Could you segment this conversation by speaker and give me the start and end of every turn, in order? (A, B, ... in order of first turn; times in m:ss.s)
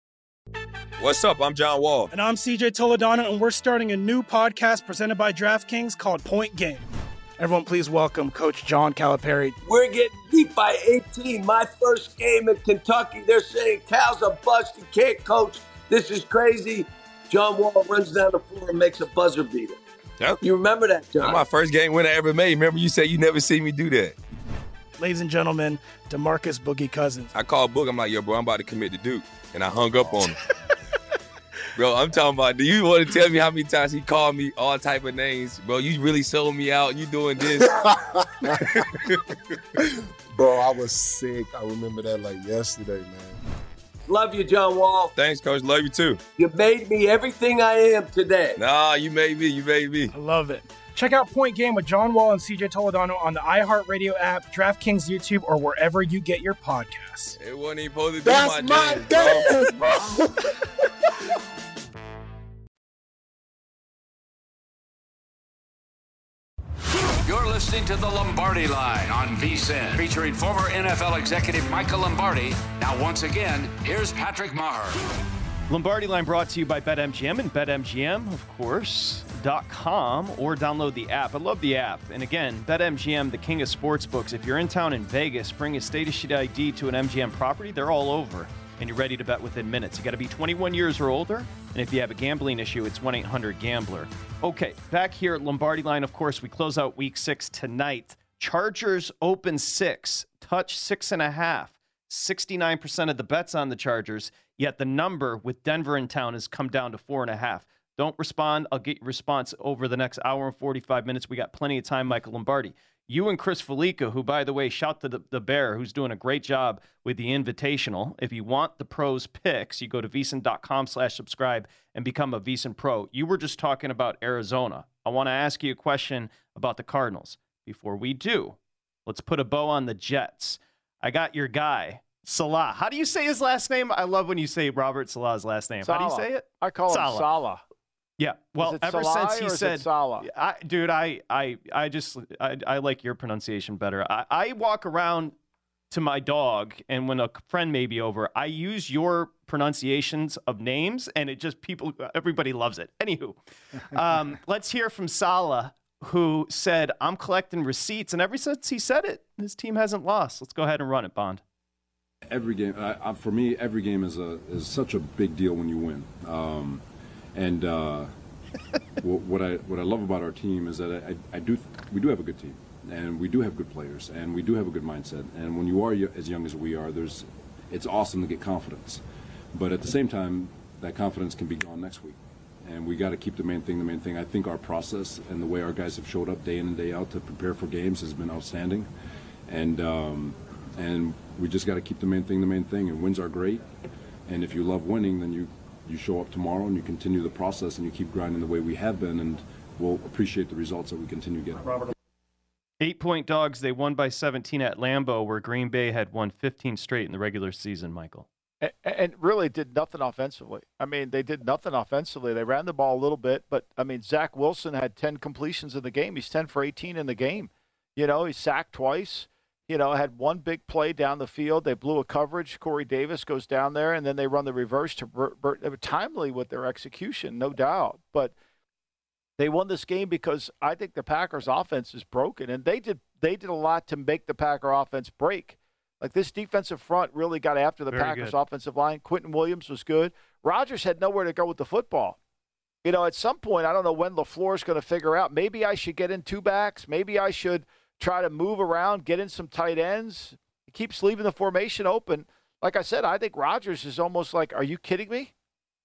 0:01.0-0:02.1 A
0:02.1-0:09.6 B
0:09.6-0:19.8 C
0:20.4-0:21.4 C
0:21.2-0:24.2 A
0:25.0-0:27.3 B
0:27.3-0:30.4 A
0:31.8-0:37.7 A
0:37.6-0:38.5 D
0:40.3-0:43.4 D
0:44.1-0:45.1 C
0:45.2-0:46.2 A
0:46.4-0:48.6 C
0:48.6-0:50.1 A
0:50.1-0:57.4 B
0:57.4-0:59.5 A
0:58.2-1:00.2 D
1:07.3-1:15.0 E
1:15.7-2:17.3 F
2:15.8-2:17.6 G
2:18.2-2:25.4 F
2:18.6-2:20.3 G
2:25.9-2:33.4 F
2:33.9-2:41.4 F
2:42.3-2:46.8 H
2:47.4-2:48.1 H
2:49.0-2:59.0 H
2:59.5-3:08.9 H
3:09.5-3:13.7 H
3:14.3-3:21.8 H
3:22.8-3:28.3 F
3:28.6-3:48.4 G
3:49.4-4:02.2 G
3:57.9-3:58.4 F
4:02.8-4:15.3 G